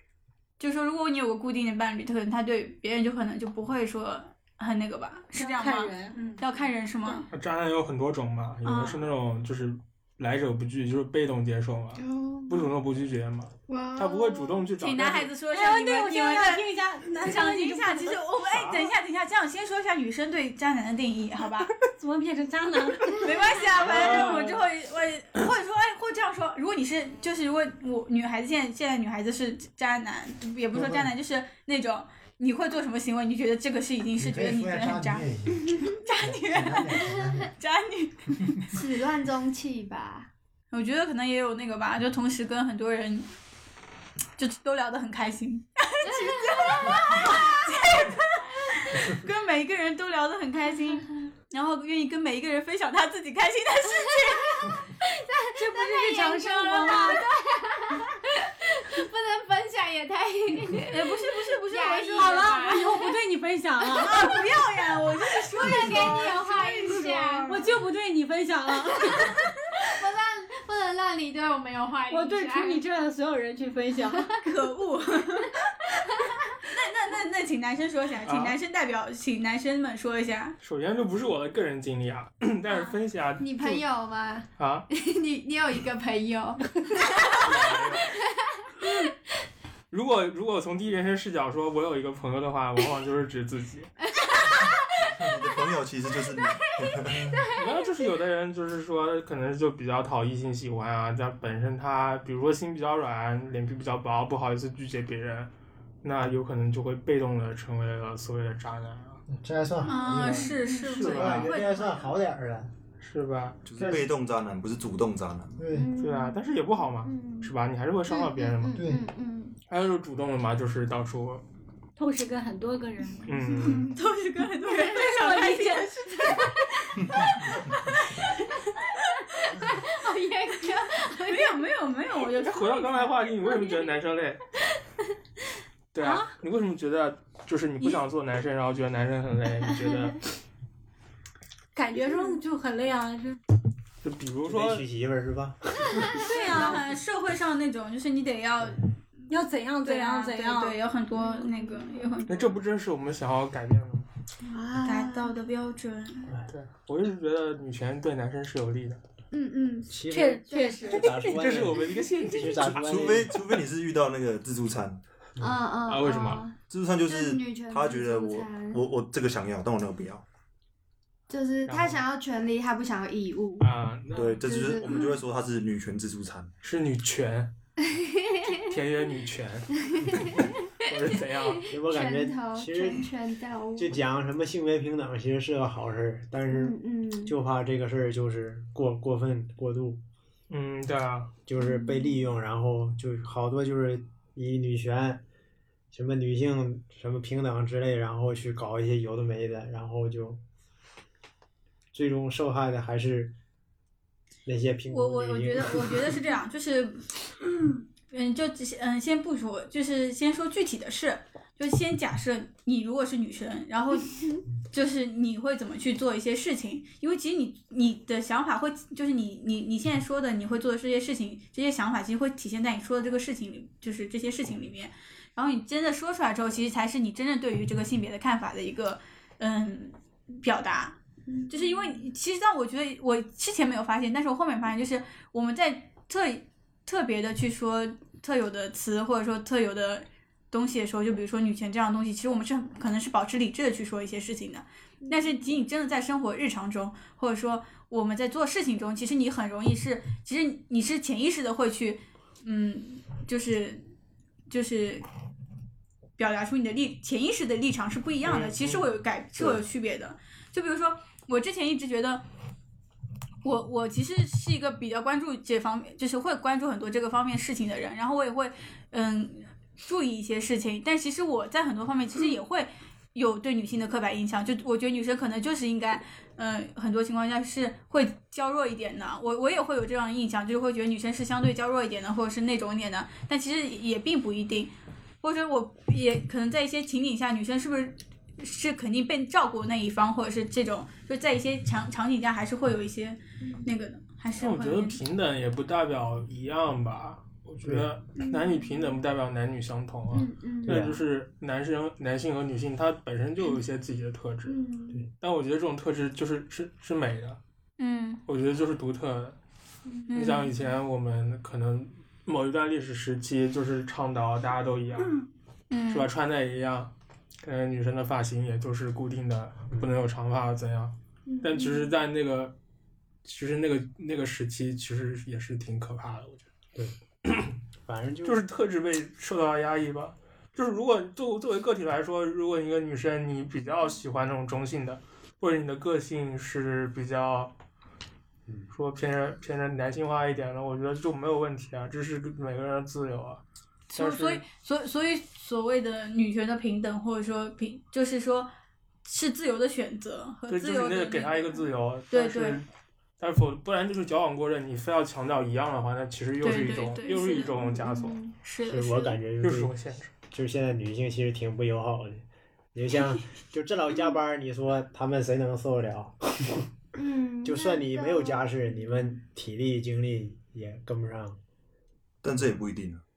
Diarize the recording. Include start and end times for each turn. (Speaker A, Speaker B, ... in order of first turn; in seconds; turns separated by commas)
Speaker A: 0.6-7.3, Speaker B: 5.3-6.5, Speaker C: 7.3-15.3, Speaker A: 8.6-9.1, Speaker D: 11.9-12.7, Speaker D: 13.7-14.7, Speaker A: 14.8-16.6, Speaker B: 15.5-18.1, Speaker A: 17.1-21.7, Speaker C: 18.5-18.9, Speaker B: 22.0-24.3, Speaker A: 23.1-35.2, Speaker C: 23.8-24.6, Speaker E: 30.7-31.1, Speaker E: 34.2-37.5, Speaker A: 36.0-38.6, Speaker D: 38.7-40.3, Speaker A: 40.7-43.3, Speaker A: 44.4-54.8, Speaker D: 46.0-47.7, Speaker D: 53.9-63.2, Speaker B: 55.5-57.2, Speaker A: 56.4-57.2, Speaker A: 60.9-62.4, Speaker B: 62.1-64.3, Speaker A: 63.9-67.7, Speaker D: 65.5-67.7, Speaker B: 66.9-69.3, Speaker D: 69.8-72.8, Speaker B: 72.1-74.2, Speaker D: 74.0-74.5, Speaker A: 74.4-75.5, Speaker D: 75.3-76.4, Speaker A: 76.7-80.6, Speaker C: 78.2-78.5, Speaker C: 80.6-83.8, Speaker D: 83.4-87.5, Speaker C: 84.6-84.9, Speaker C: 87.4-88.1, Speaker C: 89.9-93.9, Speaker D: 94.2-95.7, Speaker F: 95.0-97.2, Speaker D: 96.3-98.1, Speaker E: 97.2-97.4, Speaker C: 97.5-105.5, Speaker C: 106.0-109.2, Speaker E: 109.3-112.7, Speaker A: 109.8-112.1, Speaker D: 110.3-111.0, Speaker C: 110.8-111.5, Speaker C: 113.0-114.0, Speaker F: 113.6-115.6, Speaker E: 115.6-115.9, Speaker D: 115.7-117.5, Speaker C: 116.0-118.9, Speaker D: 118.1-119.6, Speaker E: 118.8-119.0, Speaker C: 119.7-121.4, Speaker B: 122.0-123.9, Speaker C: 123.2-123.9, Speaker A: 123.9-126.4, Speaker B: 124.8-126.4, Speaker D: 126.2-126.8, Speaker A: 127.1-128.3, Speaker A: 129.1-129.5, Speaker D: 129.5-131.6, Speaker A: 131.3-133.1, Speaker C: 132.4-134.4, Speaker D: 133.4-133.8, Speaker C: 135.9-140.2, Speaker B: 136.0-136.3, Speaker B: 141.7-143.4, Speaker C: 144.0-144.8, Speaker E: 144.4-146.2, Speaker B: 146.3-146.8, Speaker A: 146.3-148.9, Speaker B: 149.3-150.8, Speaker A: 149.8-152.6, Speaker D: 151.2-152.2, Speaker C: 152.3-154.1, Speaker D: 154.4-155.3, Speaker A: 154.8-156.3, Speaker C: 156.5-159.0, Speaker D: 159.3-161.1, Speaker E: 159.9-163.4, Speaker B: 160.1-161.7, Speaker C: 161.3-162.8, Speaker F: 162.6-165.0, Speaker D: 165.4-168.8, Speaker C: 165.8-166.4, Speaker F: 166.7-170.2, Speaker D: 171.3-173.7, Speaker C: 171.7-172.0, Speaker C: 173.6-175.1, Speaker F: 174.1-176.5, Speaker D: 174.4-175.2, Speaker C: 176.6-177.5, Speaker D: 178.0-178.5, Speaker C: 178.5-180.3, Speaker C: 180.8-181.6, Speaker D: 181.6-183.9, Speaker E: 181.7-183.1, Speaker E: 183.8-190.0, Speaker D: 186.5-187.3, Speaker C: 190.5-191.3, Speaker E: 191.4-195.2, Speaker D: 191.6-192.3, Speaker E: 195.9-200.4, Speaker E: 201.9-203.3, Speaker E: 204.4-206.2, Speaker A: 204.9-207.1, Speaker A: 208.1-253.9, Speaker D: 231.3-232.0, Speaker D: 245.0-245.5, Speaker A: 254.5-255.0, Speaker A: 256.2-262.2, Speaker C: 258.2-258.8, Speaker A: 263.4-295.0, Speaker D: 293.4-293.7, Speaker C: 294.4-304.6, Speaker E: 297.6-297.9, Speaker D: 298.2-299.0, Speaker D: 300.1-300.9, Speaker E: 300.6-301.0, Speaker D: 304.5-305.0, Speaker C: 305.2-307.4, Speaker A: 307.8-308.2, Speaker C: 308.3-309.4, Speaker A: 310.1-310.5, Speaker C: 310.1-315.2, Speaker A: 315.7-316.1, Speaker C: 315.9-322.5, Speaker D: 321.3-321.9, Speaker C: 323.2-326.5, Speaker C: 327.3-327.5, Speaker E: 327.9-328.4, Speaker C: 328.2-337.5, Speaker C: 338.7-343.4, Speaker A: 343.9-348.5, Speaker C: 343.9-344.4, Speaker A: 349.0-352.6, Speaker C: 350.5-352.7, Speaker C: 353.2-358.2, Speaker A: 356.4-357.5, Speaker D: 357.5-358.3, Speaker A: 358.4-359.2, Speaker E: 358.6-359.8, Speaker C: 359.4-360.1, Speaker E: 360.3-366.6, Speaker D: 366.9-369.1, Speaker E: 367.4-371.4, Speaker F: 372.2-373.0